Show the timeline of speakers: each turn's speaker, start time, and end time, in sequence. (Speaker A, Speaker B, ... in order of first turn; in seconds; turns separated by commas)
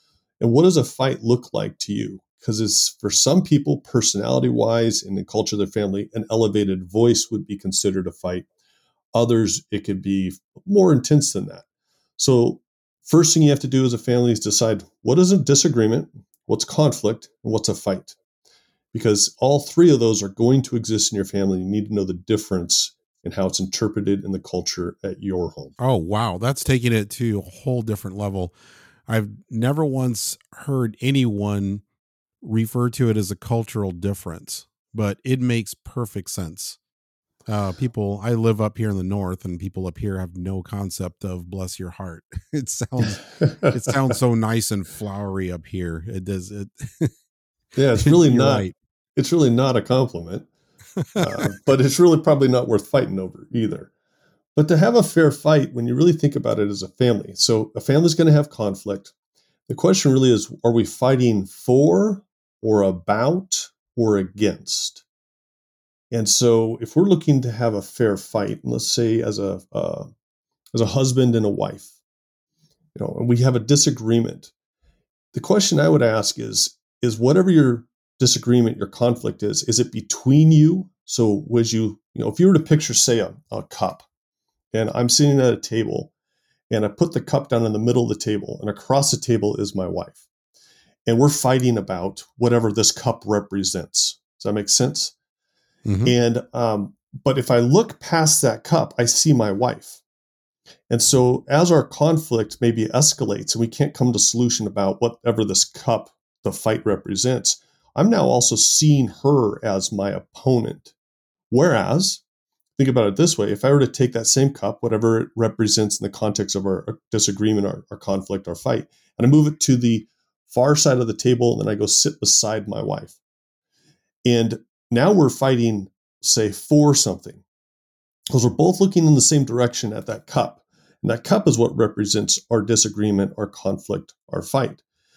Speaker A: 0.4-8.5, Speaker A: 9.1-11.7, Speaker A: 12.2-18.2, Speaker A: 18.9-25.8, Speaker B: 25.8-28.5, Speaker B: 29.1-31.8, Speaker B: 32.4-36.8, Speaker B: 37.5-47.1, Speaker A: 43.4-44.1, Speaker A: 47.8-50.5, Speaker B: 48.0-48.7, Speaker A: 51.2-53.9, Speaker A: 54.5-59.1, Speaker A: 59.7-65.0, Speaker A: 66.1-70.1, Speaker A: 70.7-71.9, Speaker A: 73.0-74.5, Speaker A: 75.3-84.1, Speaker A: 84.7-86.1, Speaker A: 86.7-90.2, Speaker A: 91.0-95.1, Speaker B: 95.9-96.1, Speaker A: 96.0-100.0, Speaker A: 100.9-110.9, Speaker A: 111.5-112.2, Speaker A: 112.8-123.2, Speaker A: 124.2-127.4, Speaker A: 128.3-134.8